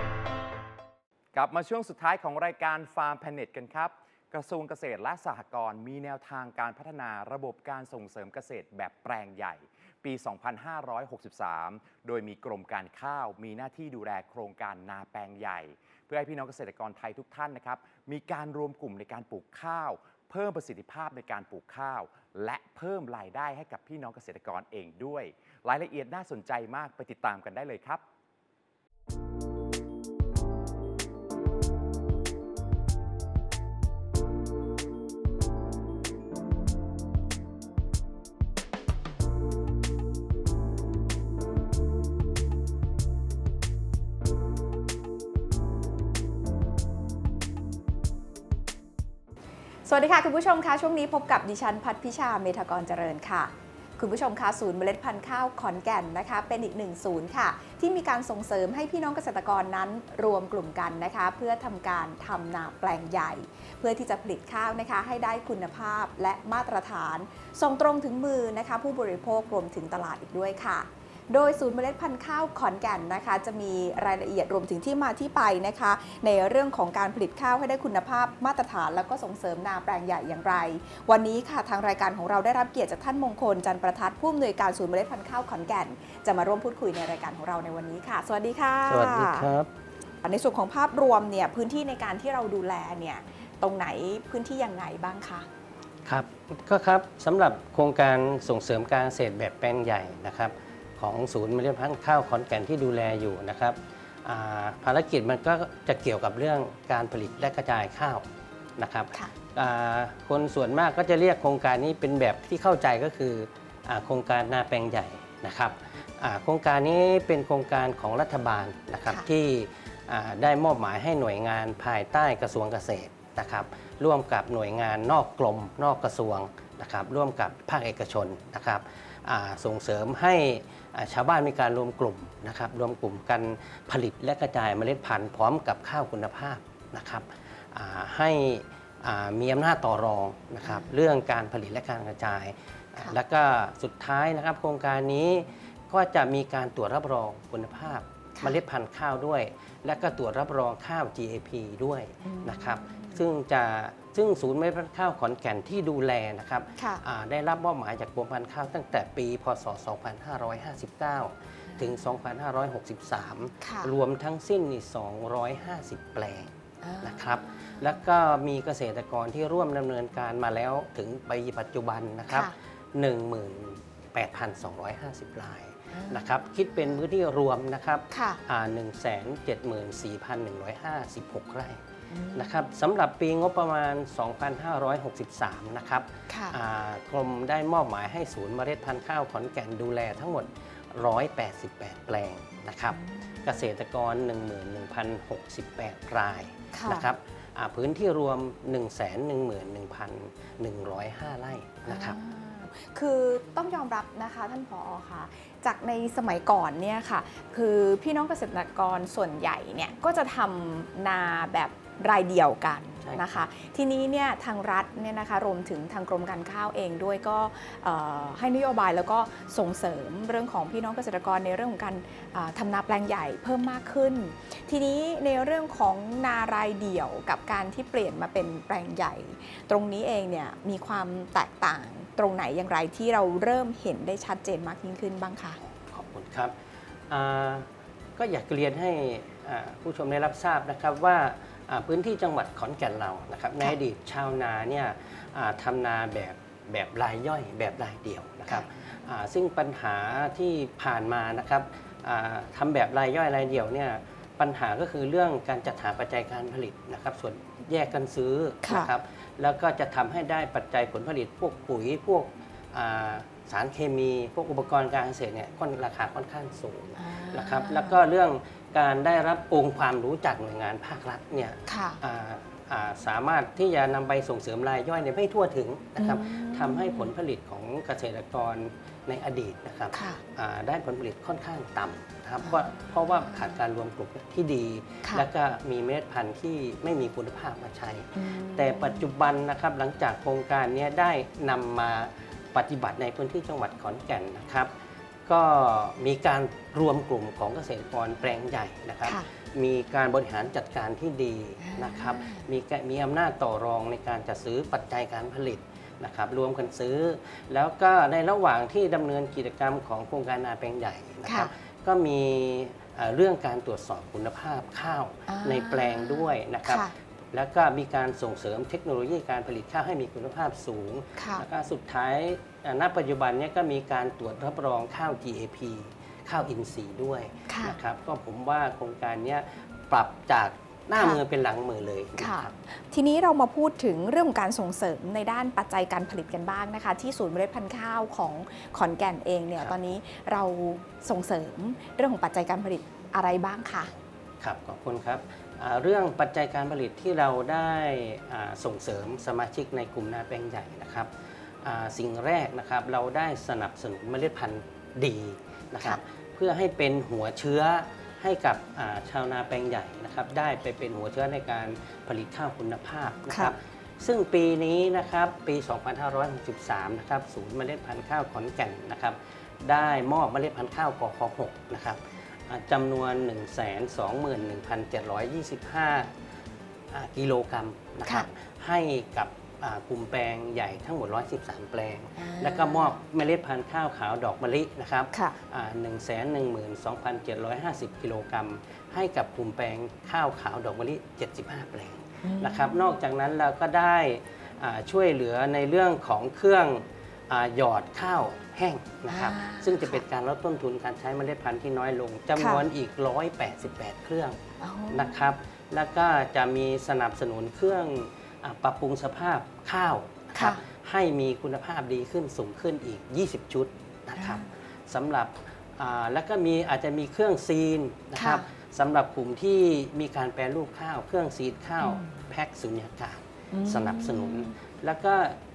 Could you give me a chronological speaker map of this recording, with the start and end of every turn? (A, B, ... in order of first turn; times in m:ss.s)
0:01.3-0:28.0 A
0:49.8-1:29.5 B
1:28.9-1:29.7 C
1:30.2-1:35.5 B
1:36.0-1:48.2 C
1:48.8-3:01.8 C
2:32.2-2:33.2 B
2:36.8-2:37.0 B
2:43.6-2:43.9 B
2:46.8-2:48.0 B
2:55.9-2:56.3 B
2:58.1-2:58.4 B
3:02.1-3:02.6 B
3:02.3-3:22.2 C
3:06.3-3:06.6 B
3:12.9-3:13.6 B
3:16.7-3:17.1 B
3:21.8-3:55.6 B
3:33.0-3:33.4 C
3:55.6-3:56.5 C
3:57.1-4:54.7 C
4:18.6-4:18.9 B
4:27.0-4:28.0 B
4:31.7-4:32.0 B
4:36.0-4:37.1 B
4:39.9-4:40.2 B
4:42.4-4:43.5 B
4:48.1-4:49.1 B
4:55.2-5:32.5 C
4:59.0-4:59.3 B
5:01.6-5:02.4 B
5:11.2-5:11.5 B
5:15.3-5:16.9 B
5:21.2-5:21.4 B
5:27.5-5:27.8 B
5:30.9-5:31.2 B
5:32.2-5:43.9 B
5:44.4-5:51.1 C
5:51.6-6:16.1 C
6:03.3-6:03.5 B
6:16.9-7:05.4 C
6:22.2-6:23.0 B
6:25.1-6:25.4 B
6:32.2-6:32.8 B
6:39.1-6:40.0 B
6:42.4-6:42.6 B
6:44.6-6:45.1 B
6:50.3-6:50.6 B
6:54.2-6:54.5 B
6:58.1-6:58.4 B
7:01.8-7:02.1 B
7:03.5-7:04.5 B